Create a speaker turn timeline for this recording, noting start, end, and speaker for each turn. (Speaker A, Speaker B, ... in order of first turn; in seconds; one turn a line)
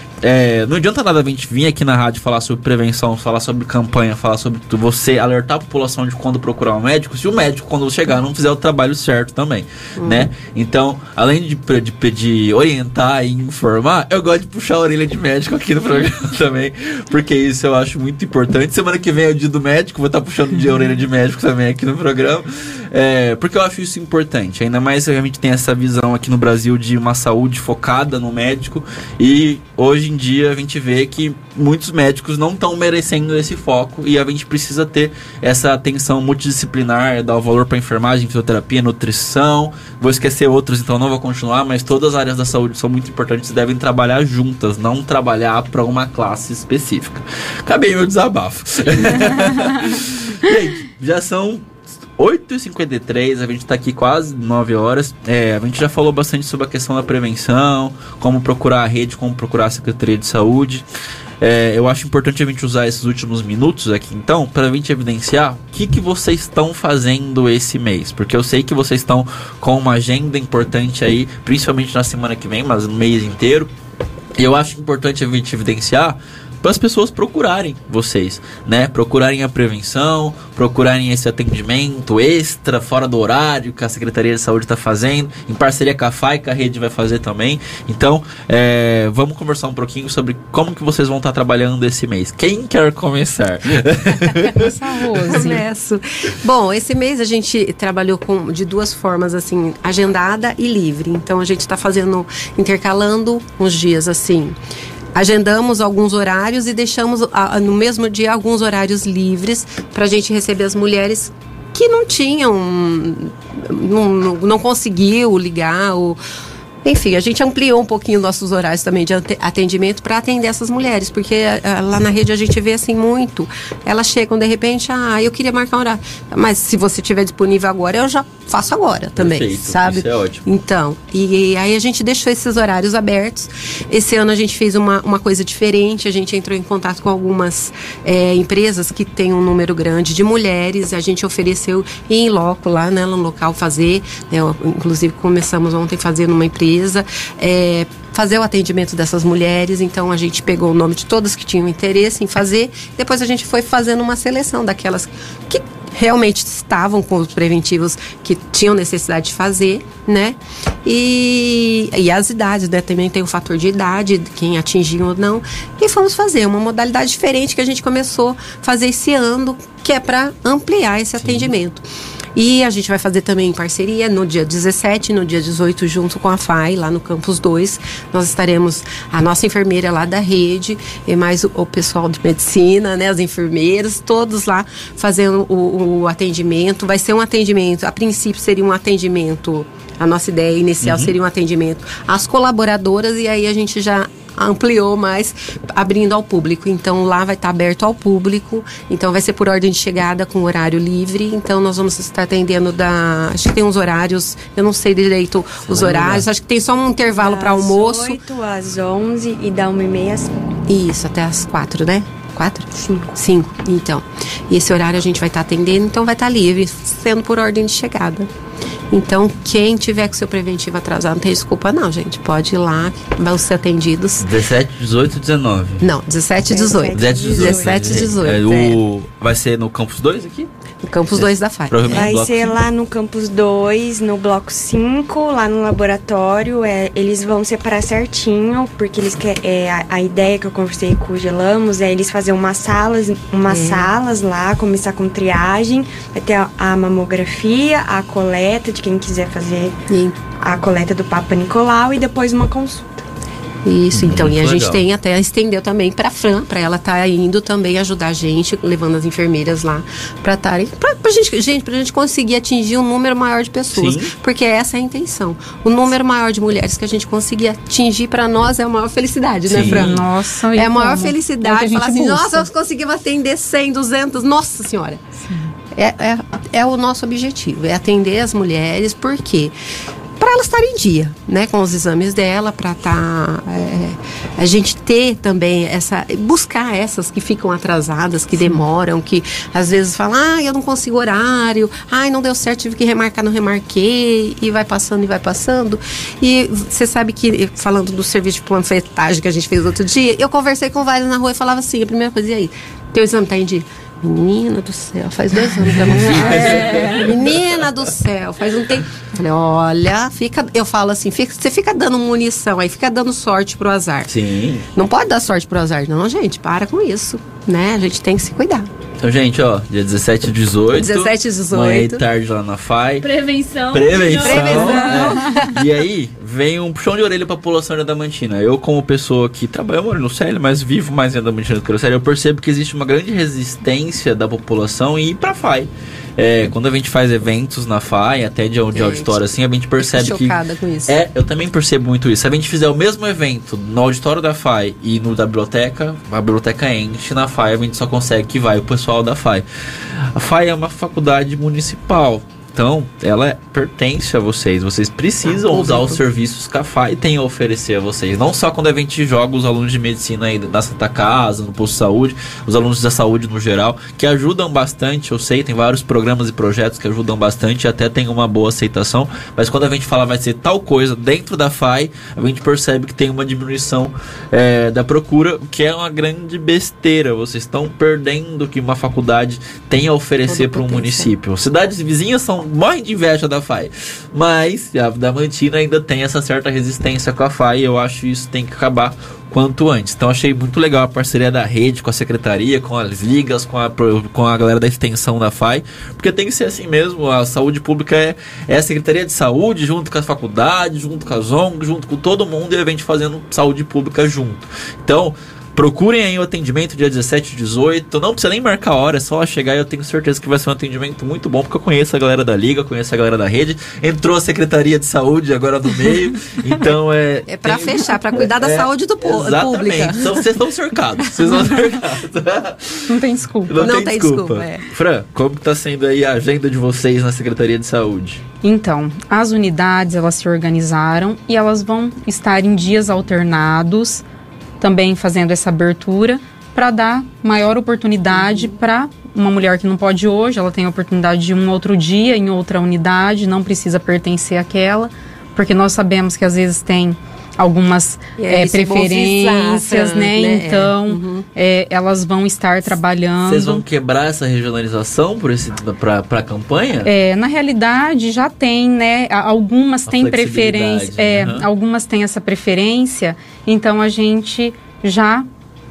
Speaker A: 0.2-60.8
Speaker B: 10.0-10.3
Speaker A: 61.4-73.7
Speaker A: 74.4-94.7
Speaker C: 94.5-95.6
Speaker B: 95.3-104.6
Speaker B: 105.1-116.2
Speaker B: 116.8-171.8
Speaker A: 129.2-130.4
Speaker A: 171.2-171.5
Speaker B: 172.3-208.2
Speaker A: 190.8-191.1
Speaker A: 205.7-206.3
Speaker D: 207.1-210.6
Speaker B: 210.7-218.3
Speaker D: 212.8-213.1
Speaker B: 218.9-224.3
Speaker A: 224.2-225.9
Speaker B: 225.8-228.8
Speaker D: 226.5-228.1
Speaker A: 226.9-230.5
Speaker B: 230.8-232.1
Speaker A: 231.1-232.6
Speaker D: 231.9-249.8
Speaker B: 243.4-243.9
Speaker B: 249.9-250.2
Speaker D: 250.4-253.0
Speaker B: 253.7-275.1
Speaker A: 253.9-254.8
Speaker A: 263.8-264.1
Speaker A: 269.5-270.1
Speaker C: 269.6-272.5
Speaker B: 275.7-279.5
Speaker B: 280.2-314.1
Speaker A: 305.8-307.5
Speaker C: 306.1-307.0
Speaker A: 314.1-314.7
Speaker B: 314.7-318.7
Speaker A: 319.0-323.1
Speaker B: 320.7-322.0
Speaker E: 323.0-325.1
Speaker A: 323.7-349.4
Speaker B: 324.2-325.6
Speaker C: 324.4-325.3
Speaker B: 338.7-339.2
Speaker B: 339.8-341.0
Speaker A: 350.1-428.2
Speaker B: 355.2-356.0
Speaker B: 380.3-381.1
Speaker B: 417.3-420.4
Speaker B: 421.0-421.6
Speaker C: 422.9-423.5
Speaker B: 423.6-424.7
Speaker C: 428.4-434.0
Speaker C: 434.6-453.6
Speaker B: 448.2-451.3
Speaker A: 453.2-456.9
Speaker C: 456.9-465.3
Speaker A: 459.9-461.5